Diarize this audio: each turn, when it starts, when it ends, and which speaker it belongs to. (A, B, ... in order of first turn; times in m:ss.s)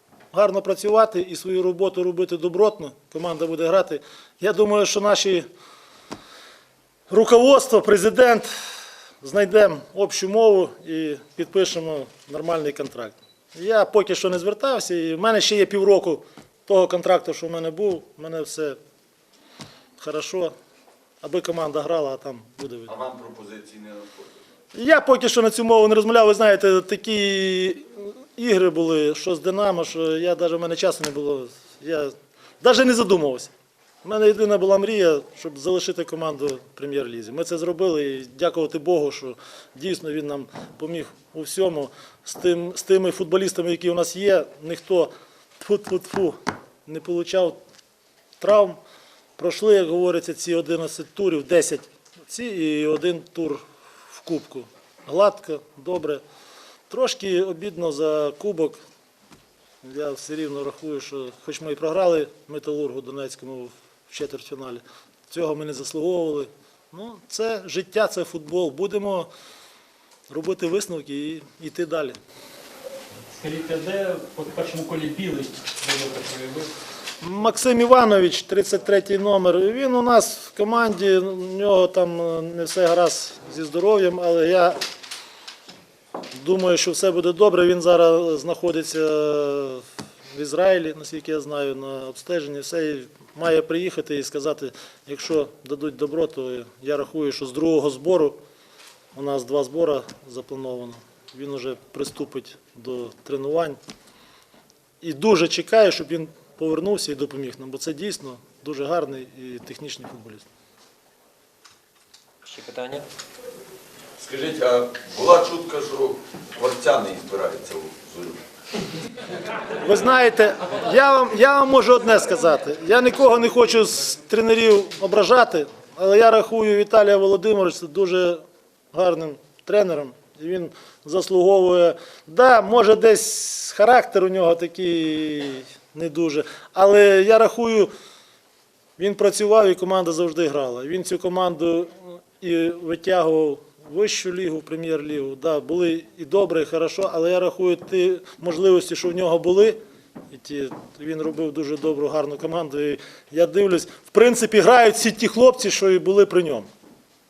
0:00.3-0:05.4 A
0:07.1-0:08.5 A
0:09.2-0:18.8 A
0:20.0-0:20.5 A
0:21.2-0:22.9 A
0:22.9-0:24.3 B
0:24.7-0:33.5 A
0:34.0-0:47.6 A
0:48.4-0:48.8 A
0:49.4-0:56.2 A
0:56.9-0:58.8 A
0:59.8-1:09.3 A
1:10.3-1:12.2 A
1:13.3-1:16.7 C
1:17.2-1:24.8 A
1:26.3-1:38.4 A
1:39.1-1:43.8 A
1:45.0-1:50.5 A
1:52.4-1:53.0 C
1:54.2-1:58.4 B
1:59.8-2:08.4 A
2:08.9-2:17.9 A
2:19.0-2:29.8 A
2:30.3-2:36.7 A